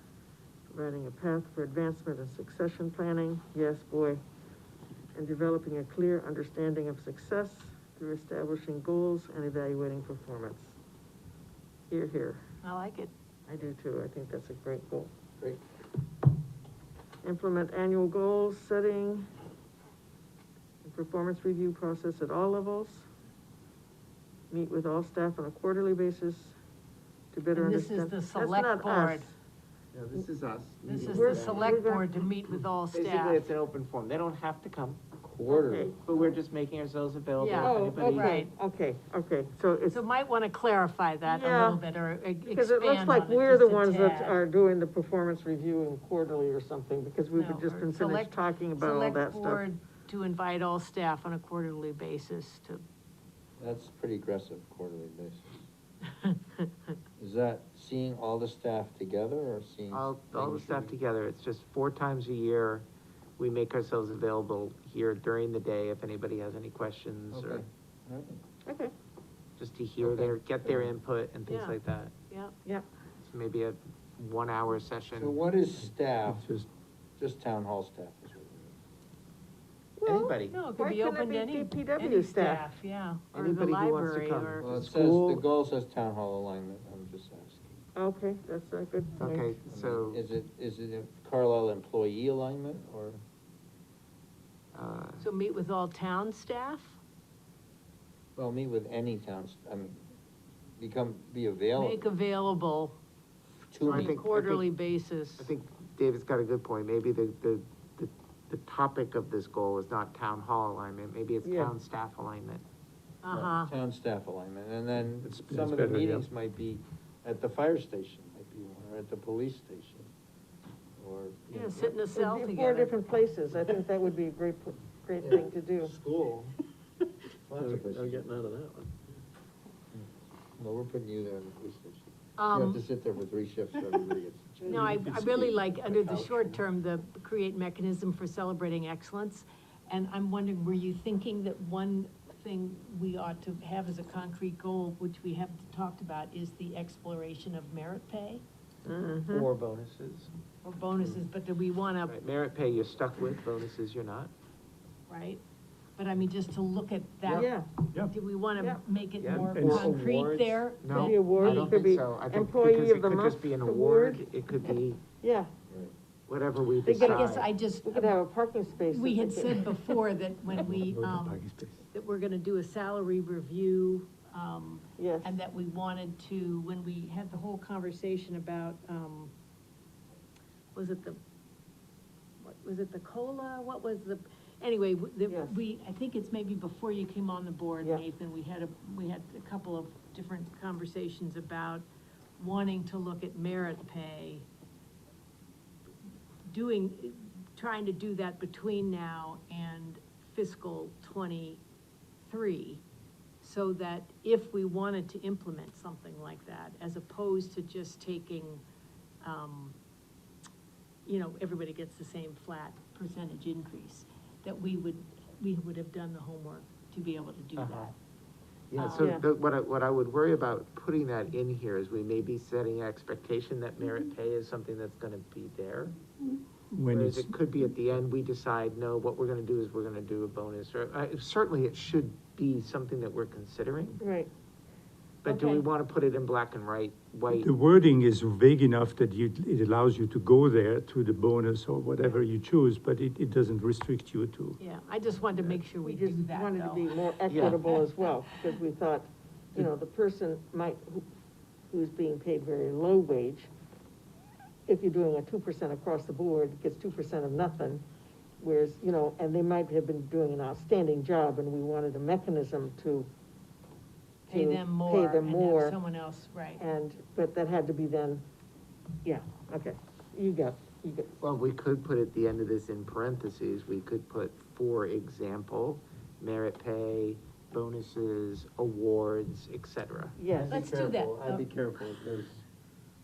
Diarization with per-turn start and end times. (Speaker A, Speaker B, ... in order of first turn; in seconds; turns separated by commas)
Speaker A: 0.7-4.2, Speaker A: 5.1-10.8, Speaker A: 11.9-12.4, Speaker B: 12.6-13.1, Speaker A: 13.5-15.1, Speaker A: 17.2-19.3, Speaker A: 20.8-23.1, Speaker A: 24.5-26.6, Speaker A: 27.3-29.3, Speaker B: 27.5-29.3, Speaker C: 29.9-31.8, Speaker B: 30.8-33.5, Speaker A: 31.1-32.2, Speaker C: 32.9-35.0, Speaker D: 35.2-35.9, Speaker A: 35.5-36.3, Speaker C: 36.0-38.5, Speaker B: 37.4-38.5, Speaker A: 37.6-40.0, Speaker B: 39.9-44.4, Speaker A: 41.2-41.8, Speaker A: 42.4-49.6, Speaker B: 47.3-52.8, Speaker D: 53.6-55.4, Speaker B: 56.2-56.7, Speaker D: 57.2-60.9, Speaker C: 59.9-62.9, Speaker C: 63.4-67.6, Speaker D: 67.3-68.4, Speaker A: 68.7-68.9, Speaker C: 69.6-72.2, Speaker D: 70.0-70.9, Speaker B: 71.5-72.5, Speaker C: 73.2-75.4, Speaker D: 75.1-76.4, Speaker E: 75.8-76.7, Speaker D: 77.2-78.7, Speaker A: 80.0-82.6, Speaker C: 80.0-80.6, Speaker B: 80.5-84.8, Speaker C: 83.3-85.5, Speaker D: 84.6-87.8, Speaker A: 88.0-89.5, Speaker C: 89.2-90.2, Speaker D: 89.7-93.2, Speaker C: 94.7-95.2, Speaker B: 95.2-97.0, Speaker D: 98.3-100.0, Speaker D: 100.8-102.0, Speaker B: 101.7-103.0, Speaker D: 103.7-104.2, Speaker B: 103.8-105.5, Speaker C: 103.9-104.7, Speaker C: 105.4-112.6, Speaker A: 111.4-111.7, Speaker B: 113.2-113.7, Speaker D: 113.3-120.1, Speaker E: 115.2-116.2, Speaker D: 121.0-122.0, Speaker B: 121.5-122.9, Speaker A: 122.1-126.0, Speaker D: 125.2-126.5, Speaker D: 127.5-128.2, Speaker D: 129.9-135.0, Speaker B: 132.4-132.8, Speaker E: 134.7-136.6, Speaker B: 134.7-148.4, Speaker A: 148.8-149.5, Speaker C: 149.3-150.3, Speaker B: 150.6-152.2, Speaker C: 152.1-154.3, Speaker B: 155.1-155.4, Speaker B: 156.0-157.5, Speaker A: 157.2-157.7, Speaker B: 158.0-161.6, Speaker A: 158.6-158.8, Speaker C: 159.2-165.0, Speaker E: 159.3-159.9, Speaker A: 160.9-165.5, Speaker C: 166.3-167.5, Speaker A: 166.8-167.2, Speaker B: 166.9-168.2, Speaker A: 167.8-169.7, Speaker B: 168.9-179.3, Speaker E: 170.5-171.8, Speaker A: 175.0-175.3, Speaker B: 180.7-181.2, Speaker B: 182.4-191.8, Speaker A: 185.3-185.6, Speaker B: 192.4-194.4, Speaker B: 196.5-201.6, Speaker B: 202.2-202.8, Speaker B: 203.4-208.6, Speaker B: 209.2-209.8, Speaker B: 211.1-217.9, Speaker C: 217.6-217.9, Speaker C: 218.7-225.9, Speaker B: 218.8-219.2, Speaker A: 219.0-219.2, Speaker E: 226.7-227.3, Speaker C: 226.9-234.0, Speaker A: 234.0-234.3, Speaker C: 235.2-237.5, Speaker A: 235.3-235.6, Speaker E: 237.3-244.6, Speaker B: 244.6-247.8, Speaker A: 245.8-251.1, Speaker C: 247.3-247.6, Speaker A: 251.7-253.5, Speaker A: 254.7-257.8, Speaker A: 258.4-263.1, Speaker B: 264.3-266.6, Speaker A: 264.3-265.8, Speaker A: 266.6-268.2, Speaker A: 269.0-271.1, Speaker C: 271.2-280.1, Speaker A: 280.2-280.6, Speaker D: 280.3-282.4, Speaker B: 280.5-281.5